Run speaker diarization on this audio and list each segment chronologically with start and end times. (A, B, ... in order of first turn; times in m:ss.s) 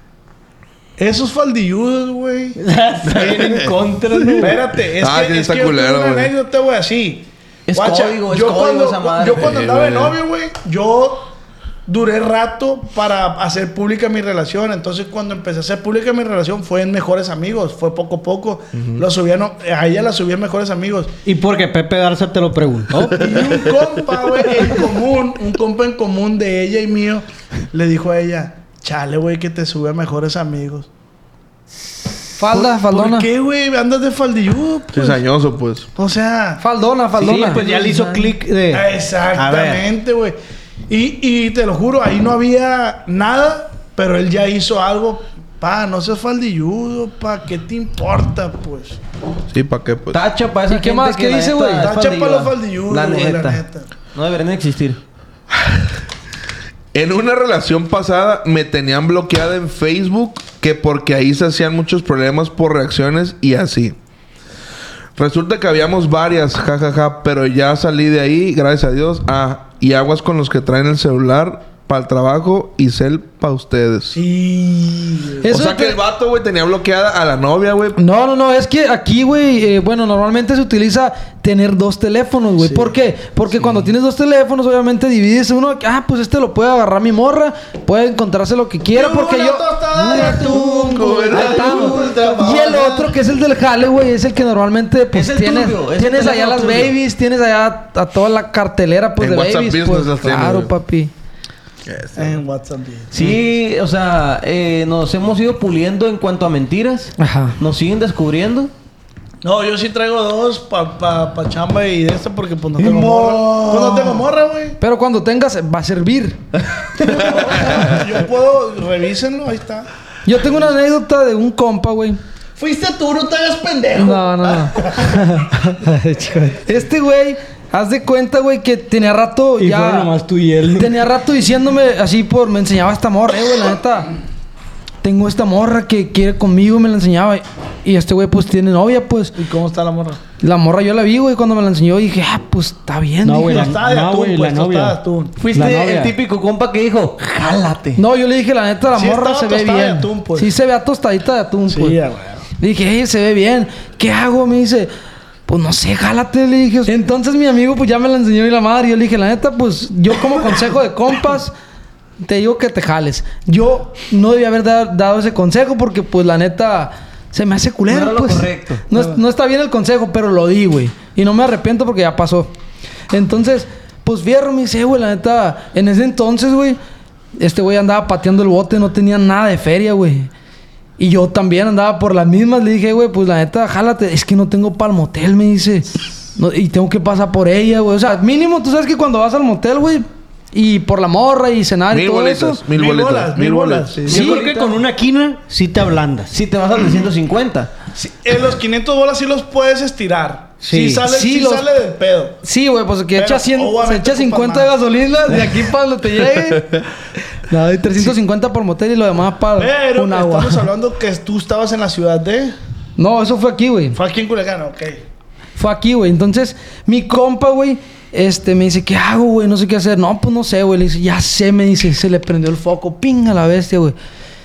0:01.0-0:02.6 A
0:02.6-0:04.6 B
0:03.1-0:06.3 C
0:04.4-0:11.3 A
0:07.7-0:09.5 D
0:09.4-0:10.2 C
0:11.9-0:21.1 A
0:18.8-0:19.0 C
0:21.2-0:23.4 B
0:23.2-0:30.9 A
0:23.3-0:23.6 C
0:32.4-0:33.3 E
0:32.5-0:35.2 A
0:34.9-0:35.9 C
0:36.0-0:36.6 A
0:36.6-0:37.6 E
0:37.2-0:39.8 B
0:37.7-0:38.2 D
0:38.7-0:40.4 A
0:40.9-0:49.0 A
0:49.5-0:50.2 C
0:50.1-0:55.0 D
0:50.7-0:51.9 E
0:51.8-0:53.9 A
0:56.9-1:04.0 C
1:05.2-1:14.2 C
1:14.1-1:15.5 A
1:15.4-1:16.0 E
1:15.5-1:18.0 C
1:18.0-1:41.1 E
1:22.6-1:22.9 A
1:23.6-1:23.8 C
1:28.9-1:33.1 A
1:30.0-1:30.6 D
1:30.8-1:31.9 C
1:31.3-1:32.2 D
1:35.1-1:36.9 D
1:39.2-1:40.7 C
1:41.8-1:42.4 C
1:42.2-1:43.2 A
1:43.1-1:48.7 D
1:47.2-1:47.6 E
1:49.4-1:54.8 A
1:53.0-1:53.7 D
1:54.8-1:56.4 E
1:57.0-1:59.9 A
1:57.6-1:58.0 C
2:00.2-2:02.2 E
2:02.6-2:05.2 A
2:03.9-2:10.1 E
2:09.6-2:11.0 B
2:10.7-2:14.1 E
2:15.0-2:19.3 E
2:19.4-2:20.2 A
2:20.4-2:23.7 E
2:23.2-2:25.0 B
2:23.5-2:25.4 A
2:25.4-2:28.0 D
2:25.5-2:26.1 B
2:28.0-2:32.0 E
2:28.9-2:30.5 A
2:31.7-2:32.4 A
2:32.6-2:34.9 E
2:35.5-2:41.5 E
2:42.2-2:52.5 E
2:47.9-2:48.8 D
2:53.1-2:56.8 E
2:57.4-3:00.3 E
3:01.0-3:12.6 E
3:11.9-3:14.2 C
3:12.7-3:14.1 A
3:14.1-3:14.8 D
3:14.1-3:16.3 B
3:14.1-3:14.4 E
3:16.3-3:17.7 D
3:17.9-3:22.4 A
3:20.6-3:21.0 B
3:21.0-3:21.7 E
3:22.4-3:26.8 E
3:23.1-3:24.7 A
3:27.5-3:30.7 E
3:29.6-3:32.5 A
3:33.0-3:34.0 E
3:33.9-3:35.0 A
3:35.6-3:44.0 E